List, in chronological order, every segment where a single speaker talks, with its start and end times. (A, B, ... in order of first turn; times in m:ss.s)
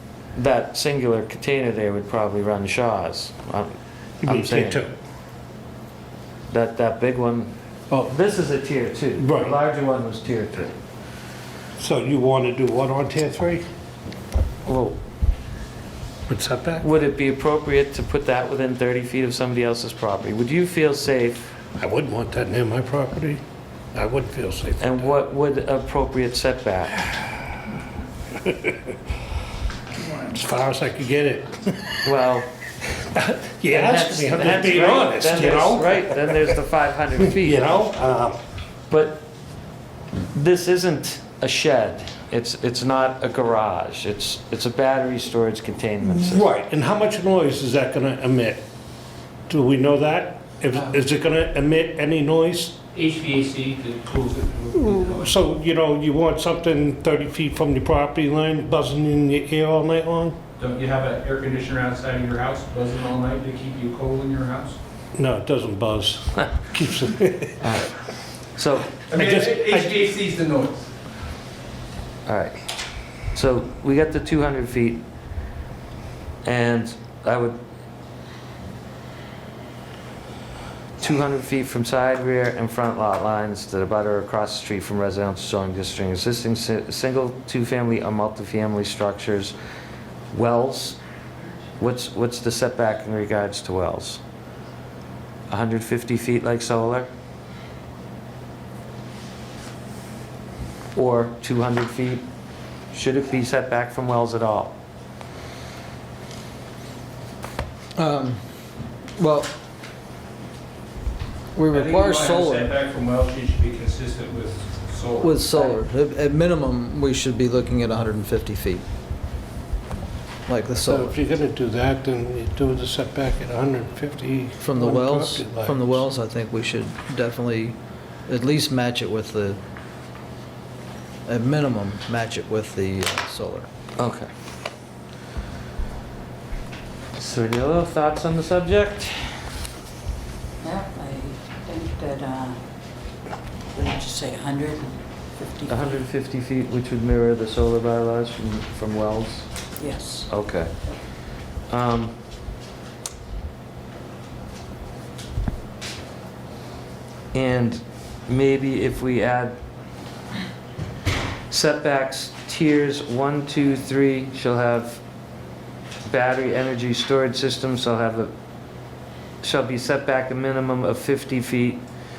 0:00.3-0:04.8 A
0:04.2-0:04.9 B
0:06.5-0:10.8 A
0:09.2-0:09.6 B
0:11.8-0:13.6 B
0:14.6-0:15.0 A
0:16.3-0:16.8 B
0:16.8-0:21.4 A
0:21.8-0:23.4 B
0:23.9-0:25.0 B
0:24.8-0:27.1 A
0:28.4-0:28.9 B
0:30.1-0:32.1 B
0:32.0-0:32.5 A
0:32.9-0:36.6 B
0:33.7-0:37.7 A
0:37.3-0:38.4 B
0:38.9-0:39.2 A
0:40.3-0:46.4 A
0:46.1-0:48.6 B
0:49.5-0:52.8 B
0:52.9-0:55.4 C
0:54.8-1:00.4 B
1:00.6-1:04.8 C
1:05.2-1:07.7 B
1:07.6-1:07.9 A
1:08.5-1:08.9 A
1:09.1-1:10.9 C
1:09.1-1:10.0 B
1:12.3-1:15.0 A
1:16.4-1:17.6 A
1:21.0-1:29.6 A
1:30.3-1:31.0 A
1:31.8-1:34.2 A
1:35.5-1:37.1 A
1:40.9-1:42.3 A
1:42.9-1:44.8 A
1:48.0-1:48.4 D
1:49.2-1:49.5 D
1:51.6-1:52.8 D
1:51.7-1:55.8 C
1:55.2-1:58.8 D
2:00.5-2:01.2 D
2:00.8-2:06.1 B
2:04.6-2:07.8 D
2:08.3-2:09.6 D
2:11.3-2:13.7 D
2:14.0-2:14.3 A
2:17.2-2:19.3 A
2:20.6-2:22.6 E
2:23.7-2:26.0 E
2:25.7-2:29.5 A
2:29.8-2:30.3 E
2:30.2-2:30.8 A
2:31.7-2:32.2 A
2:37.3-2:39.6 A
2:41.5-2:45.0 A
2:46.1-2:48.3 A
2:49.4-2:51.8 A